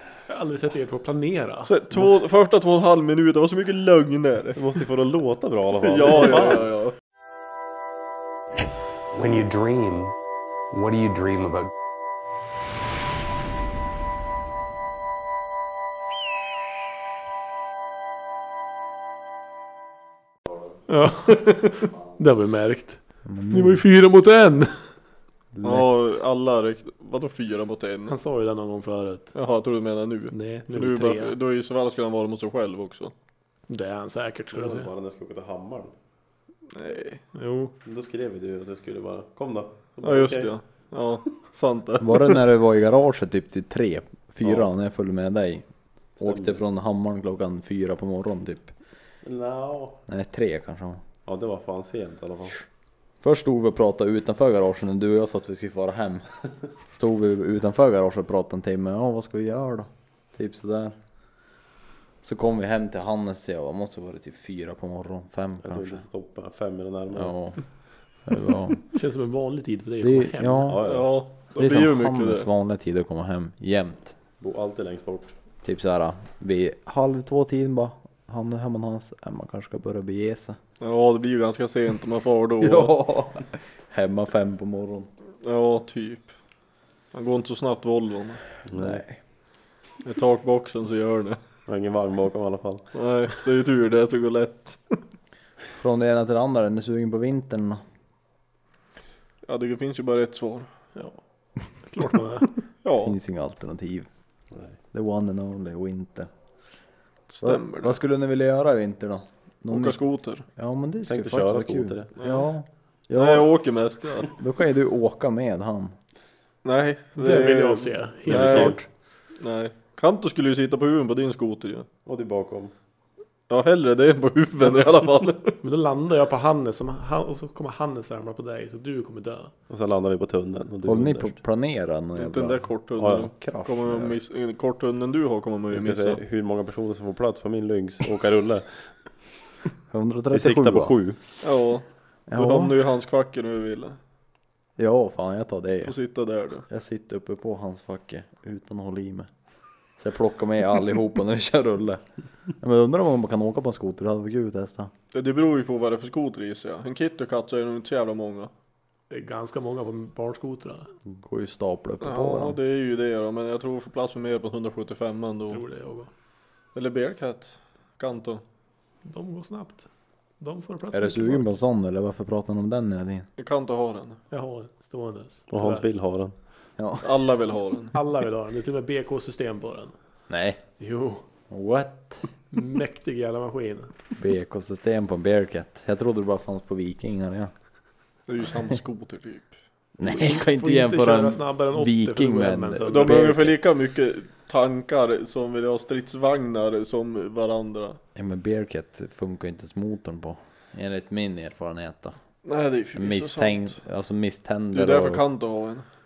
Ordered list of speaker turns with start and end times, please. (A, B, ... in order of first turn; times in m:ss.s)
0:00.3-0:01.7 A
0:01.6-0:04.6 B
0:04.6-0:06.7 C
0:05.8-0:06.9 B
0:09.1-0:10.1 D
0:10.7-0:11.7 D
0:20.9-0:24.9 A
0:23.2-0:23.8 E
0:25.5-0:25.9 E
0:25.6-0:28.1 B
0:28.1-0:29.3 A
0:29.3-0:33.1 B
0:30.3-0:31.4 A
0:33.7-0:34.9 A
0:34.5-0:35.9 C
0:36.7-0:37.2 B
0:37.3-0:37.7 A
0:37.8-0:40.5 C
0:40.0-0:42.4 B
0:42.0-0:45.6 E
0:46.2-0:46.6 C
0:46.2-0:48.7 E
0:49.2-0:50.0 C
0:50.1-0:51.0 E
0:51.2-0:52.6 C
0:53.2-0:56.2 E
0:56.8-1:00.9 E
1:02.2-1:06.0 E
1:05.6-1:07.3 C
1:07.1-1:07.6 E
1:08.2-1:08.8 E
1:08.9-1:10.8 A
1:10.0-1:10.8 E
1:10.6-1:11.1 C
1:10.8-1:12.5 B
1:11.5-1:14.2 E
1:14.4-1:15.3 C
1:15.6-1:20.6 E
1:20.8-1:22.9 B
1:22.6-1:25.1 E
1:25.4-1:26.3 B
1:27.1-1:28.4 B
1:28.7-1:29.0 C
1:28.7-1:29.2 E
1:30.0-1:31.4 B
1:31.7-1:32.8 C
1:32.9-1:35.0 B
1:35.8-1:37.8 E
1:39.4-1:40.7 B
1:41.8-1:42.5 A
1:42.8-1:43.1 B
1:43.0-1:44.1 E
1:44.9-1:46.3 E
1:47.3-1:48.0 B
1:47.4-1:50.0 E
1:49.7-1:50.4 B
1:50.6-1:53.5 E
1:51.1-1:52.1 C
1:52.2-1:52.4 B
1:53.1-1:54.3 B
1:54.3-1:55.9 E
1:56.6-1:58.8 B
1:57.2-1:58.8 A
1:58.2-1:58.8 C
1:59.4-2:01.9 B
2:02.0-2:02.7 C
2:03.5-2:05.6 B
2:05.6-2:09.5 A
2:09.7-2:11.4 C
2:10.8-2:14.2 E
2:12.2-2:16.2 B
2:13.0-2:13.3 C
2:15.7-2:18.9 C
2:19.9-2:20.9 E
2:20.3-2:21.2 C
2:21.4-2:24.0 B
2:22.3-2:22.8 E
2:24.8-2:26.0 E
2:25.8-2:26.6 B
2:26.7-2:29.3 E
2:30.0-2:32.0 E
2:32.6-2:34.9 E
2:35.1-2:38.5 B
2:39.1-2:40.9 A
2:41.0-2:42.6 E
2:42.0-2:45.6 B
2:45.5-2:46.1 A
2:46.7-2:48.4 B
2:49.0-2:49.8 A
2:50.4-2:51.5 A
2:50.9-2:53.3 E
2:53.4-2:54.2 B
2:54.3-2:55.8 A
2:55.5-2:56.3 C
2:56.8-2:57.1 E
2:57.0-2:58.0 B
2:57.9-2:59.9 A
3:00.3-3:00.6 E
3:00.8-3:01.2 A
3:01.5-3:02.3 E
3:02.5-3:03.9 A
3:04.2-3:07.5 E
3:08.3-3:09.6 B
3:10.0-3:13.5 E
3:10.0-3:13.4 A
3:12.8-3:18.0 B
3:18.1-3:22.2 E
3:22.4-3:23.8 B
3:22.9-3:25.2 E
3:24.7-3:25.8 B